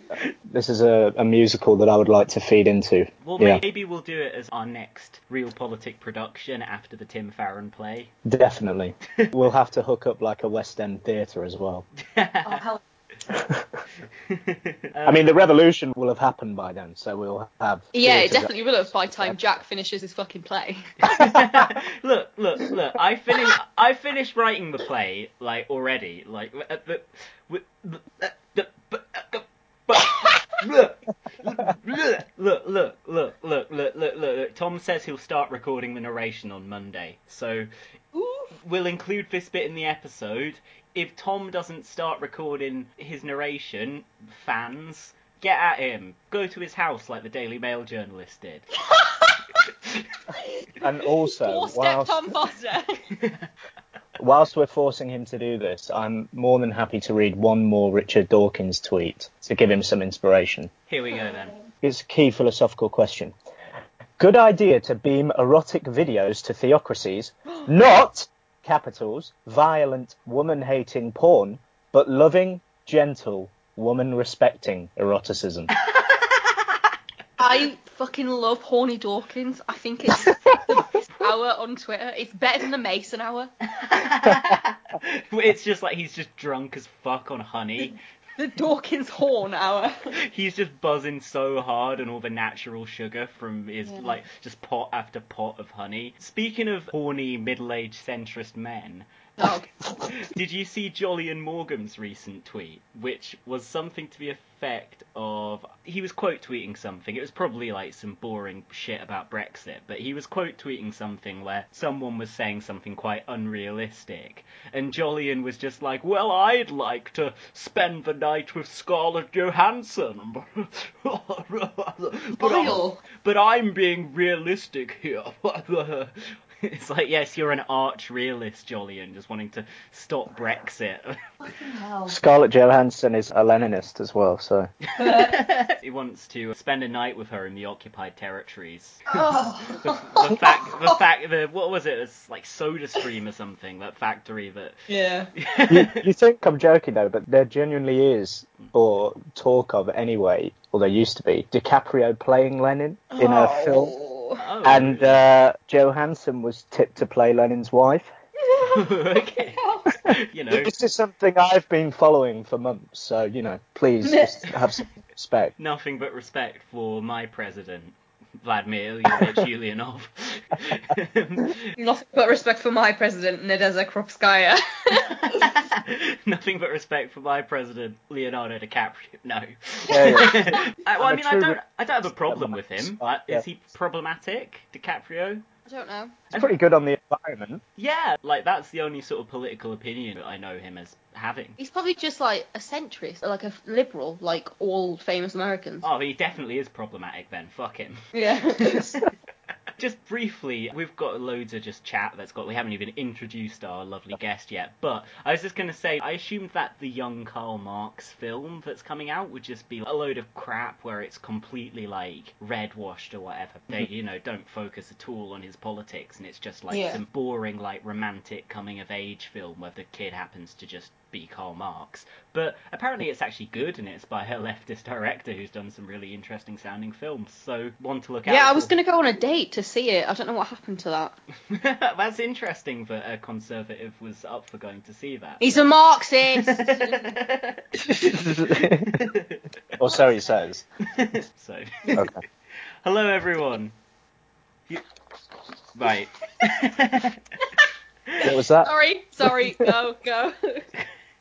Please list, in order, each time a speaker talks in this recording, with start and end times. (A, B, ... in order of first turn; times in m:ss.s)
0:00.5-0:03.6 A
0:03.2-0:08.1 B
0:08.2-0:11.8 A
0:12.0-0:12.6 B
0:12.4-0:12.8 C
0:13.3-0:13.6 A
0:14.3-0:15.3 B
0:15.0-0:19.4 A
0:17.9-0:20.8 C
0:21.0-0:37.7 B
0:38.1-0:38.5 C
0:38.6-0:48.7 B
0:48.9-0:49.3 C
0:50.8-0:52.3 A
0:51.4-0:53.0 C
0:53.2-0:53.4 B
0:54.2-1:00.7 A
1:00.9-1:01.6 B
1:01.8-1:03.3 A
1:04.2-1:15.7 A
1:15.9-1:16.8 B
1:17.4-1:23.5 C
1:23.8-1:27.9 B
1:28.4-1:30.0 C
1:30.2-1:39.1 B
1:33.8-1:34.1 C
1:39.4-1:39.9 C
1:40.0-2:06.1 B
2:02.4-2:03.0 C
2:06.6-2:11.2 B
2:11.5-2:12.1 C
2:12.1-2:14.7 A
2:15.0-2:15.4 C
2:15.0-2:19.2 B
2:19.1-2:21.0 C
2:19.8-2:24.8 B
2:24.9-2:25.3 C
2:25.4-2:26.0 B
2:25.7-2:33.9 A
2:33.1-2:34.4 C
2:34.4-2:35.2 B
2:34.6-2:38.1 A
2:38.5-2:39.9 C
2:38.7-2:40.7 B
2:40.5-2:45.5 A
2:44.0-2:44.3 C
2:45.6-2:51.7 B
2:49.1-2:49.4 A
2:51.8-2:55.5 C
2:55.3-3:05.4 B
2:59.9-3:00.4 A
3:01.0-3:01.6 A
3:02.2-3:03.4 A
3:05.7-3:06.2 C
3:06.3-3:07.6 A
3:06.3-3:06.6 B
3:07.8-3:11.6 B
3:11.6-3:15.8 C
3:15.8-3:18.0 B
3:18.1-3:19.1 C
3:18.6-3:19.0 B
3:19.8-3:48.7 B
3:36.7-3:37.0 C
3:48.2-3:51.2 C
3:51.5-3:55.4 B
3:55.4-3:57.0 C
3:56.4-3:59.4 B
3:57.8-3:59.0 A
3:59.8-4:00.6 A
4:00.9-4:02.1 B
4:02.8-4:03.7 B
4:05.7-4:07.2 B
4:08.2-4:08.7 A
4:08.6-4:10.6 C
4:09.2-4:09.7 A